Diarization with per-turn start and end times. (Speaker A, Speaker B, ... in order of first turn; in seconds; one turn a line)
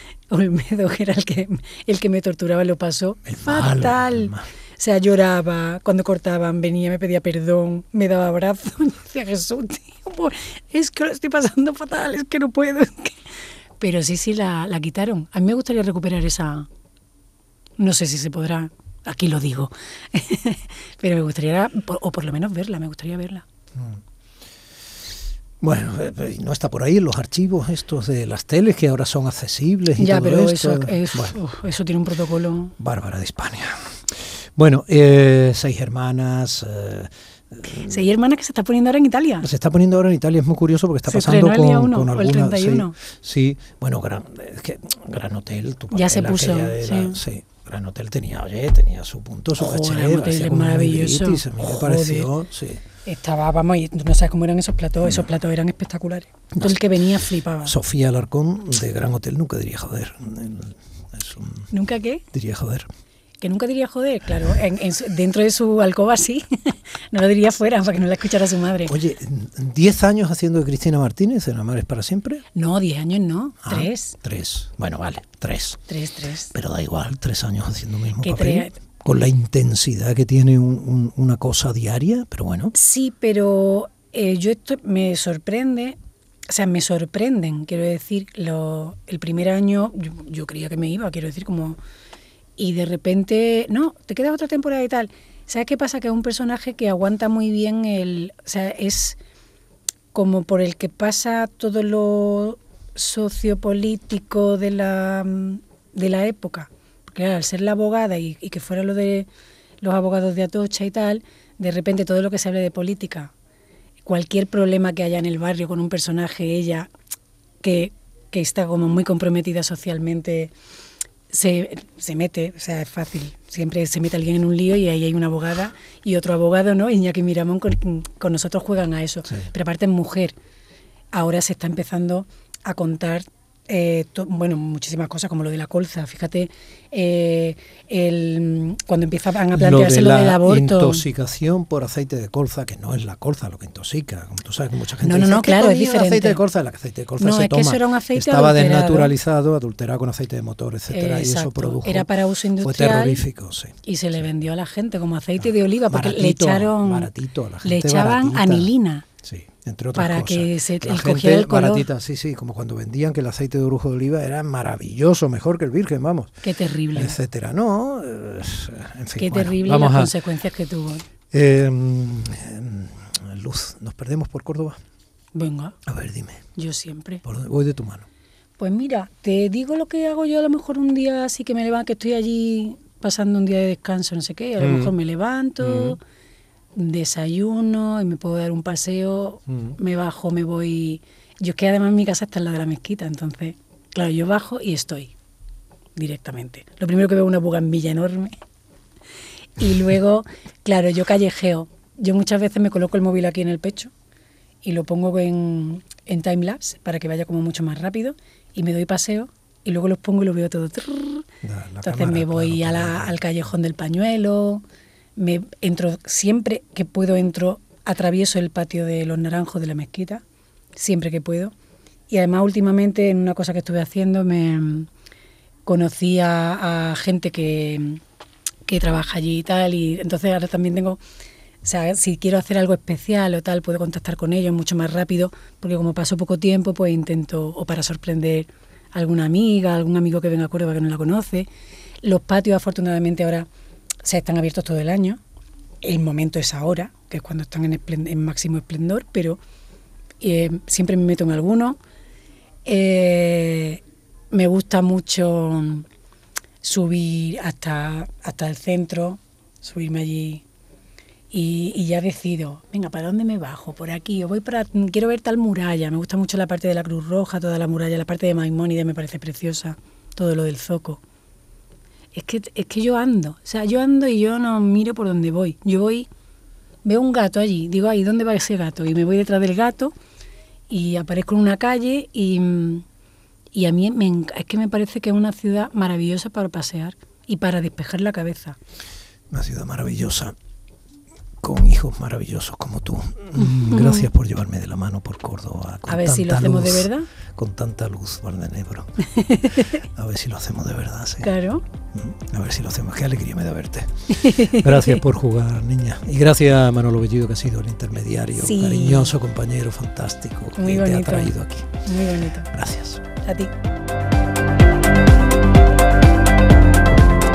Speaker A: 0.3-13.2
Speaker B: 3.2-4.5
Speaker A: 13.8-16.7
Speaker A: 17.8-23.4
Speaker B: 25.6-31.4
Speaker A: 29.9-32.7
Speaker B: 32.8-38.0
Speaker A: 37.6-39.5
Speaker B: 39.4-52.8
Speaker A: 41.1-43.0
Speaker A: 45.9-47.2
Speaker A: 49.6-52.3
Speaker A: 53.0-57.8
Speaker B: 56.5-56.9
Speaker B: 57.6-61.7
Speaker A: 61.7-62.2
Speaker B: 62.3-62.9
Speaker A: 63.4-69.0
Speaker B: 68.8-72.4
Speaker A: 72.5-74.2
Speaker B: 73.6-75.8
Speaker A: 75.9-76.5
Speaker B: 76.5-82.7
Speaker A: 78.2-78.8
Speaker A: 82.7-86.0
Speaker A: 86.5-91.8
Speaker A: 92.6-99.2
Speaker A: 100.1-109.3
Speaker A: 109.8-113.3
Speaker A: 114.0-116.9
Speaker A: 117.6-120.5
Speaker A: 121.3-130.3
Speaker A: 131.1-141.0
Speaker B: 139.5-153.8
Speaker A: 145.0-146.4
Speaker A: 147.2-149.2
Speaker A: 150.9-153.2
Speaker A: 153.8-157.1
Speaker B: 155.4-158.7
Speaker A: 157.6-159.1
Speaker B: 159.2-166.4
Speaker A: 159.9-161.9
Speaker A: 166.4-167.2
Speaker B: 166.9-170.1
Speaker A: 169.2-171.0
Speaker B: 171.3-174.8
Speaker A: 175.3-175.8
Speaker B: 175.8-176.4
Speaker A: 176.5-177.2
Speaker B: 177.2-178.1
Speaker A: 178.6-186.0
Speaker B: 184.6-184.9
Speaker B: 185.6-186.0
Speaker A: 186.7-195.1
Speaker B: 189.5-189.8
Speaker A: 195.9-198.4
Speaker A: 199.6-203.9
Speaker A: 204.6-211.3
Speaker B: 211.4-213.2
Speaker A: 211.8-214.6
Speaker A: 215.2-220.2
Speaker A: 220.7-221.5
Speaker A: 222.1-224.9
Speaker A: 225.6-228.0
Speaker A: 228.7-231.0
Speaker A: 231.6-241.5
Speaker A: 242.0-243.5
Speaker A: 244.0-245.2
Speaker A: 245.8-249.4
Speaker A: 250.2-251.8
Speaker A: 252.6-255.9
Speaker A: 256.6-260.4
Speaker A: 261.3-271.0
Speaker A: 272.1-276.1
Speaker A: 276.8-279.9
Speaker A: 280.7-282.8
Speaker A: 283.5-288.6
Speaker B: 289.3-290.3
Speaker B: 291.4-301.3
Speaker A: 293.4-294.1
Speaker A: 295.9-297.1
Speaker A: 299.1-299.8
Speaker A: 301.2-301.6
Speaker B: 301.9-311.7
Speaker A: 304.1-305.0
Speaker A: 308.4-309.1
Speaker A: 310.6-312.5
Speaker B: 312.5-313.0
Speaker A: 313.2-313.5